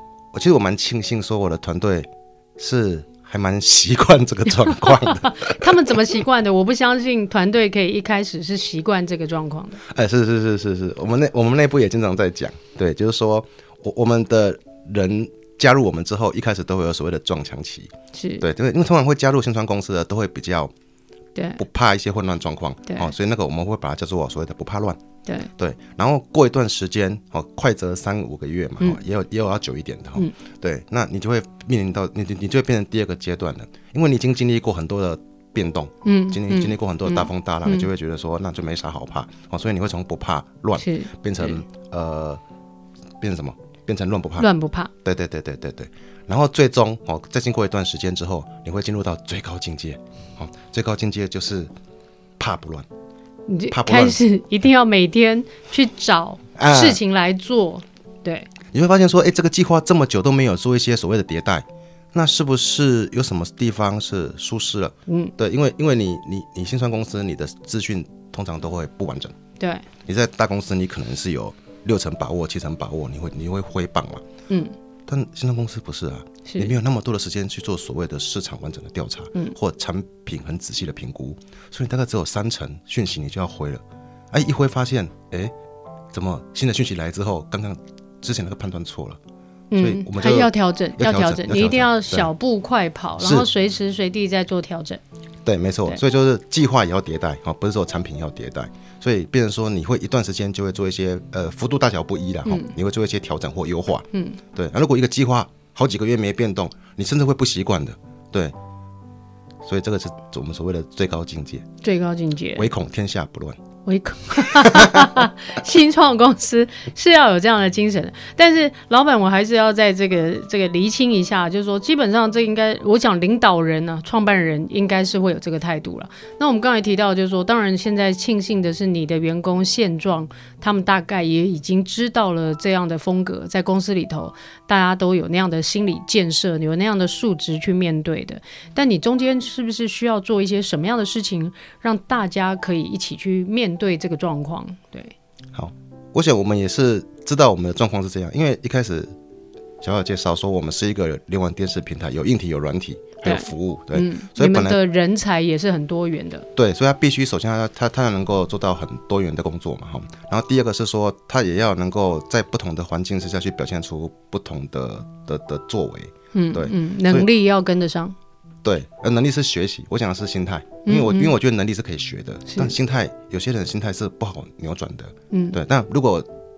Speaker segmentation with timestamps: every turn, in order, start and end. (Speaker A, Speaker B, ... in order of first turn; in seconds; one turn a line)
Speaker A: 0.3-5.8
Speaker B: 4.8-9.8
Speaker A: 9.8-20.7
Speaker B: 18.1-18.4
Speaker B: 21.4-21.6
Speaker A: 21.6-25.0
Speaker A: 25.6-42.4
Speaker B: 36.0-37.9
Speaker B: 40.8-41.6
Speaker A: 43.2-44.5
Speaker B: 44.4-44.9
Speaker A: 45.0-51.7
Speaker A: 52.4-52.9
Speaker B: 53.5-58.5
Speaker A: 53.7-54.2
Speaker A: 56.5-57.0
Speaker A: 58.7-69.3
Speaker B: 65.1-65.3
Speaker B: 69.6-69.8
Speaker A: 70.0-74.2
Speaker B: 74.5-74.7
Speaker A: 75.1-85.5
Speaker B: 76.5-76.7
Speaker A: 86.1-89.2
Speaker B: 89.7-95.0
Speaker A: 89.8-92.3
Speaker A: 93.2-93.5
Speaker A: 95.4-108.5
Speaker B: 102.5-102.7
Speaker B: 104.1-104.4
Speaker A: 109.6-111.7
Speaker B: 111.8-112.7
Speaker A: 112.5-113.6
Speaker B: 113.8-145.1
Speaker A: 114.3-115.2
Speaker A: 145.5-149.1
Speaker A: 149.8-154.8
Speaker B: 153.2-156.5
Speaker A: 156.6-167.3
Speaker B: 166.3-168.2
Speaker A: 168.6-176.3
Speaker B: 170.8-171.3
Speaker B: 172.5-172.8
Speaker B: 175.3-175.6